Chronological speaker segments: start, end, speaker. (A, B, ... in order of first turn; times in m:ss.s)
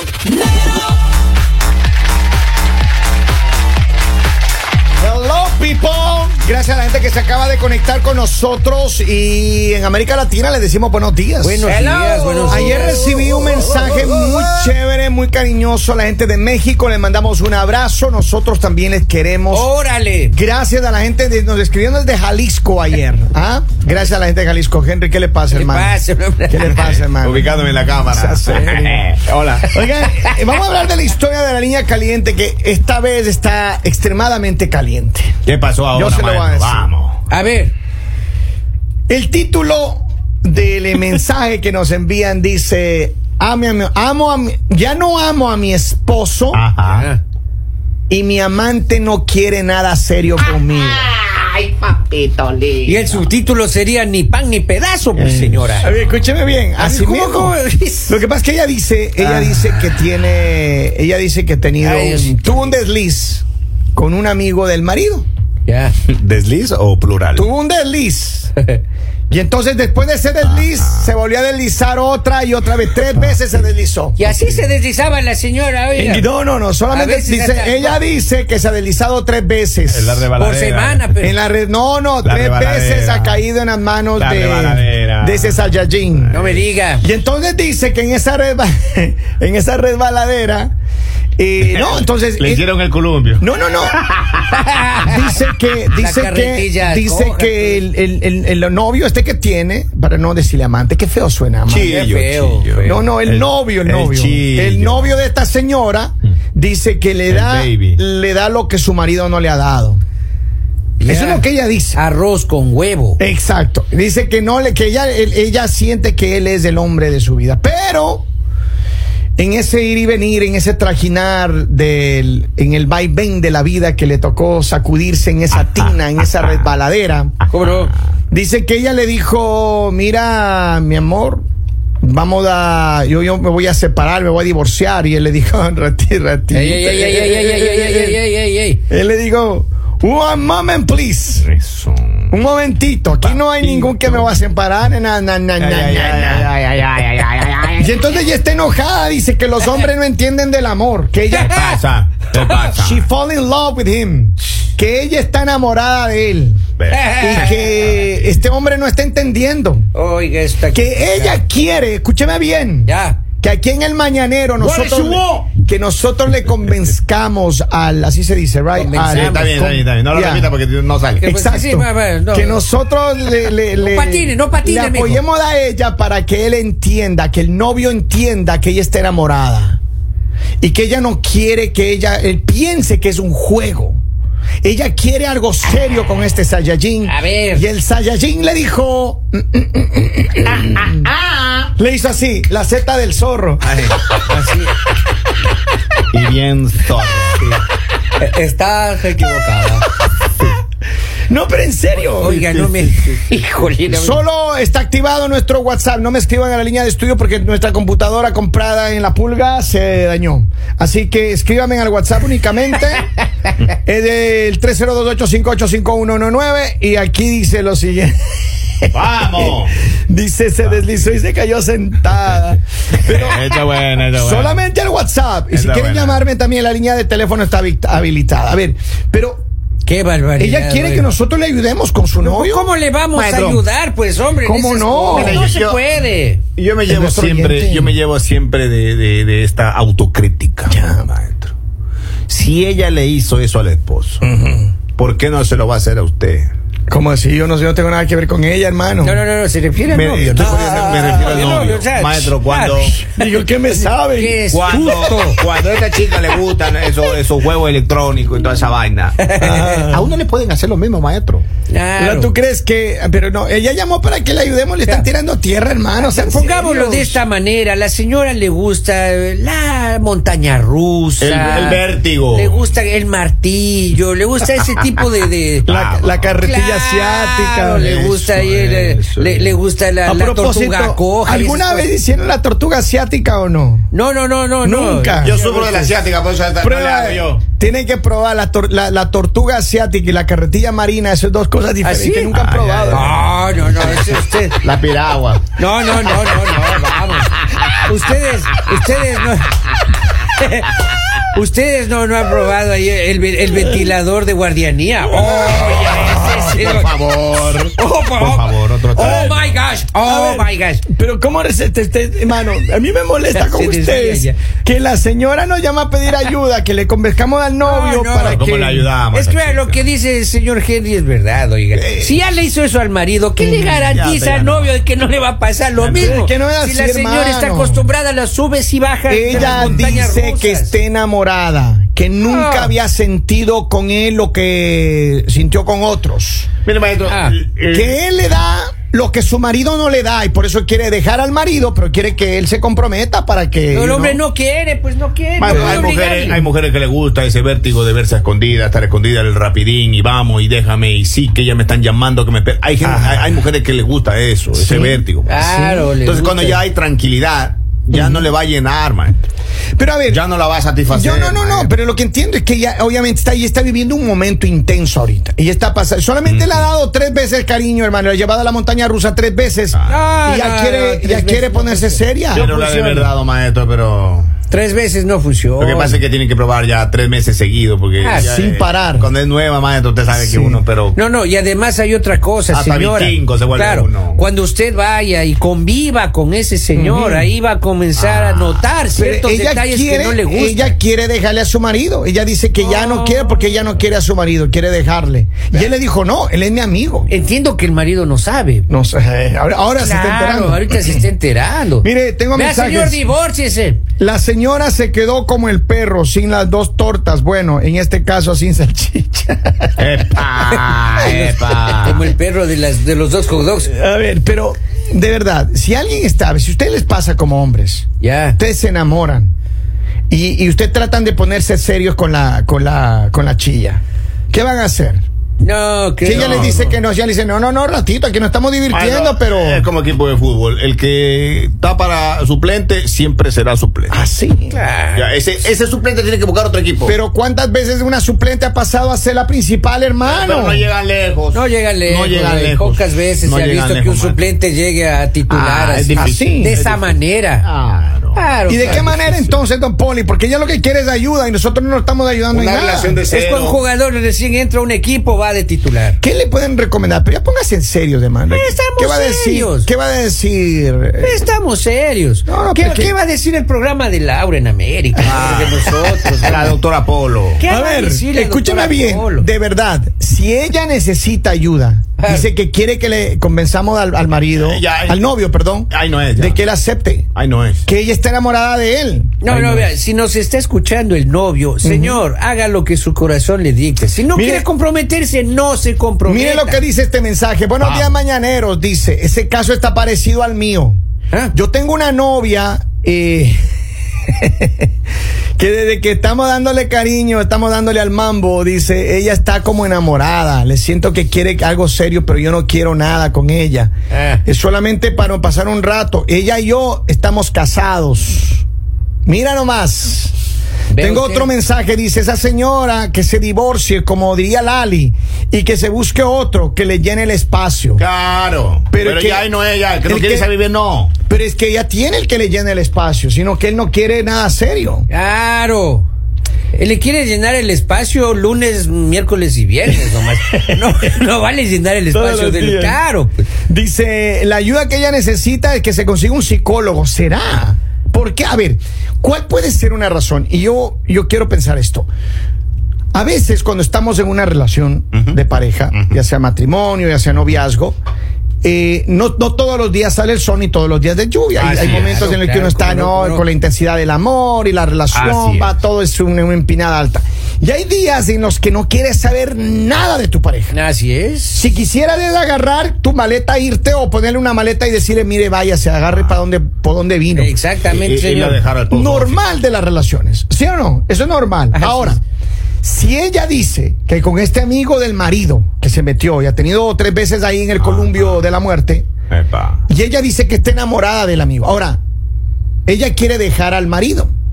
0:05.0-0:11.7 A
0:11.4-0:12.9 B
0:11.7-0:14.7 C
0:12.4-0:19.7 A
0:19.5-0:20.4 B
0:20.3-0:29.0 A
0:25.5-0:26.8 B
0:26.8-0:29.8 C
0:29.6-0:35.3 A
0:35.4-0:37.2 C
0:35.9-0:36.9 A
0:37.3-0:37.7 B
0:39.1-0:46.6 A
0:46.5-0:47.1 C
0:46.9-0:47.2 B
0:48.1-0:51.1 A
0:51.1-0:53.1 C
0:52.8-0:55.9 B
0:55.2-0:56.0 C
0:55.8-0:57.6 A
0:56.8-0:58.2 B
0:58.1-1:05.2 A
0:59.2-0:59.6 C
1:01.8-1:02.6 B
1:05.6-1:05.9 B
1:06.1-1:07.5 C
1:07.3-1:08.5 A
1:09.3-1:14.7 A
1:10.4-1:11.1 C
1:14.2-1:16.3 B
1:16.0-1:20.2 A
1:16.9-1:18.0 B
1:19.9-1:21.1 C
1:20.4-1:21.4 B
1:21.2-1:26.3 A
1:22.2-1:23.4 C
1:24.2-1:26.6 C
1:26.3-1:27.0 B
1:27.0-1:30.7 A
1:31.4-1:32.6 A
1:31.6-1:34.6 C
1:33.4-1:34.0 A
1:34.5-1:35.3 B
1:35.0-1:42.0 A
1:35.9-1:37.8 B
1:41.7-1:45.2 C
1:41.8-1:43.0 B
1:42.8-1:50.0 A
1:47.3-1:48.0 C
1:51.0-1:53.2 B
1:51.0-1:52.0 A
1:53.2-1:58.3 A
1:59.4-2:07.4 A
2:05.6-2:05.9 C
2:07.5-2:07.9 B
2:08.3-2:11.4 A
2:12.0-2:18.2 A
2:16.5-2:18.8 B
2:18.9-2:21.4 A
2:21.4-2:22.3 C
2:22.3-2:26.5 A
2:23.2-2:24.3 C
2:25.6-2:27.9 C
2:27.8-2:31.7 A
2:31.3-2:31.8 B
2:31.5-2:33.0 C
2:32.7-2:36.6 A
2:36.8-2:37.5 C
2:36.9-2:37.5 B
2:37.2-2:39.9 A
2:39.9-2:41.4 B
2:40.7-2:50.5 A
2:42.8-2:43.2 B
2:44.6-2:45.2 B
2:44.7-2:45.1 C
2:48.7-2:49.4 B
2:49.1-2:51.3 C
2:51.2-2:59.8 A
2:51.2-2:52.6 B
2:53.8-2:55.2 B
3:00.6-3:04.0 A
3:04.6-3:11.1 A
3:07.0-3:07.6 B
3:11.1-3:11.6 C
3:11.8-3:13.6 A
3:13.6-3:14.1 C
3:14.3-3:14.7 B
3:16.1-3:17.5 C
3:18.2-3:19.8 B
3:21.3-3:22.5 A
3:22.2-3:24.2 B
3:22.2-3:23.2 C
3:23.9-3:33.1 A
3:33.6-3:38.2 A
3:38.8-3:49.4 A
3:38.9-3:39.8 C
3:43.0-3:44.6 C
3:45.5-3:46.2 C
3:49.8-3:51.1 B
3:50.4-3:52.7 A
3:52.2-3:56.4 B
3:53.1-3:53.6 C
3:54.4-3:55.5 A
3:55.1-3:55.8 C
3:56.6-4:01.5 C
3:56.9-3:57.9 A
4:00.7-4:01.1 A
4:02.3-4:04.3 C
4:04.2-4:04.7 A
4:04.9-4:06.5 C
4:06.9-4:09.2 A
4:09.0-4:13.0 B
4:09.9-4:13.1 C
4:10.3-4:11.4 A
4:13.0-4:14.8 A
4:14.1-4:15.4 B
4:14.5-4:21.4 C
4:19.2-4:19.8 B
4:19.4-4:20.2 A
4:21.7-4:22.3 B
4:22.0-4:27.2 A
4:26.0-4:35.7 B
4:31.2-4:32.6 C
4:35.6-4:36.4 C
4:35.7-4:38.2 A
4:36.4-4:41.9 B
4:37.8-4:39.6 C
4:40.0-4:43.9 A
4:43.9-4:45.8 B
4:44.6-4:45.7 A
4:45.2-4:47.4 C
4:46.6-4:53.1 A
4:51.8-4:52.3 B
4:52.3-4:53.2 C
4:52.9-4:54.6 B
4:54.6-4:55.4 C
4:55.6-4:59.6 B
4:56.0-4:56.3 C
5:00.2-5:00.7 B
5:01.3-5:07.0 B
5:05.0-5:06.6 A
5:06.5-5:09.6 C
5:07.7-5:10.8 B
5:09.0-5:09.4 A
5:10.0-5:18.8 A
5:13.3-5:14.4 B
5:17.6-5:18.5 B
5:18.2-5:19.8 C
5:19.1-5:30.8 B
5:21.8-5:22.1 C
5:23.5-5:24.8 C
5:25.8-5:26.2 C
5:26.0-5:27.8 A
5:29.1-5:36.5 A
5:29.3-5:30.0 C
5:32.2-5:32.7 B
5:36.6-5:38.0 C
5:37.1-5:37.4 B
5:37.7-5:44.2 A
5:43.7-5:46.4 B
5:45.4-5:59.2 C
5:45.4-5:45.9 A
5:52.8-5:53.3 A
5:54.6-5:55.0 A
5:55.2-5:56.6 B
5:57.9-5:58.2 A
5:59.8-6:00.2 A
6:00.1-6:01.7 C
6:00.9-6:12.5 A
6:06.2-6:06.7 C
6:09.7-6:10.0 C
6:09.9-6:13.1 B
6:12.3-6:14.3 C
6:14.5-6:16.0 B
6:15.6-6:21.0 C
6:18.0-6:18.4 B
6:18.2-6:19.1 A
6:20.1-6:20.6 A
6:20.9-6:30.8 B
6:22.5-6:24.2 C
6:26.7-6:27.3 A
6:28.0-6:28.6 C
6:29.0-6:37.1 A
6:32.6-6:33.6 B
6:37.1-6:38.7 B
6:38.7-6:41.0 A
6:39.8-6:43.8 B
6:41.8-6:43.0 A
6:44.0-6:50.7 A
6:49.8-6:52.1 C
6:51.0-6:53.7 B
6:53.6-6:57.8 A
6:58.0-6:58.4 B
6:58.4-6:59.3 A
7:00.1-7:05.0 A
7:05.4-7:06.8 B
7:06.0-7:09.6 A
7:06.0-7:06.6 C
7:08.7-7:14.0 C
7:13.9-7:14.6 A
7:14.5-7:15.1 B
7:14.9-7:17.0 C
7:16.8-7:20.6 A
7:20.0-7:24.2 C
7:21.3-7:27.4 B
7:25.3-7:28.9 C
7:26.0-7:26.5 A
7:28.1-7:29.4 B
7:28.5-7:33.0 A
7:32.3-7:33.6 C
7:33.1-7:36.0 B
7:36.0-7:41.3 A
7:38.3-7:39.7 B
7:41.0-7:46.5 B
7:42.2-7:42.9 A
7:45.0-7:47.4 C
7:47.4-7:49.3 B
7:47.5-7:57.1 A
7:52.0-7:52.3 B
7:54.3-7:55.0 C
7:55.7-7:56.4 C
7:57.1-7:57.6 C
7:57.6-7:59.7 A
7:59.2-8:06.6 B
8:01.6-8:02.0 A
8:04.1-8:04.4 A
8:06.1-8:10.8 A
8:07.6-8:08.0 C
8:11.3-8:13.4 A
8:14.1-8:14.7 A
8:15.4-8:23.7 A
8:23.9-8:24.2 B
8:24.2-8:28.4 A
8:29.0-8:30.2 A
8:30.7-8:31.3 B
8:30.8-8:37.8 A
8:37.8-8:40.9 C
8:38.7-8:39.3 A
8:39.8-8:40.3 A
8:41.1-8:44.9 A
8:44.9-8:45.9 B
8:46.5-8:53.2 B
8:51.9-8:52.8 A
8:53.5-9:01.9 A
9:02.9-9:07.8 A
9:08.4-9:20.5 A
9:11.4-9:13.2 B
9:11.5-9:12.0 C
9:14.9-9:15.5 C
9:20.5-9:21.5 B
9:21.3-9:27.3 A
9:27.1-9:28.4 B
9:27.7-9:29.2 C
9:28.7-9:32.0 A
9:31.5-9:32.0 B
9:32.6-9:38.9 A
9:37.6-9:38.2 C
9:39.1-9:39.6 C
9:39.7-9:41.8 A
9:42.7-9:44.1 A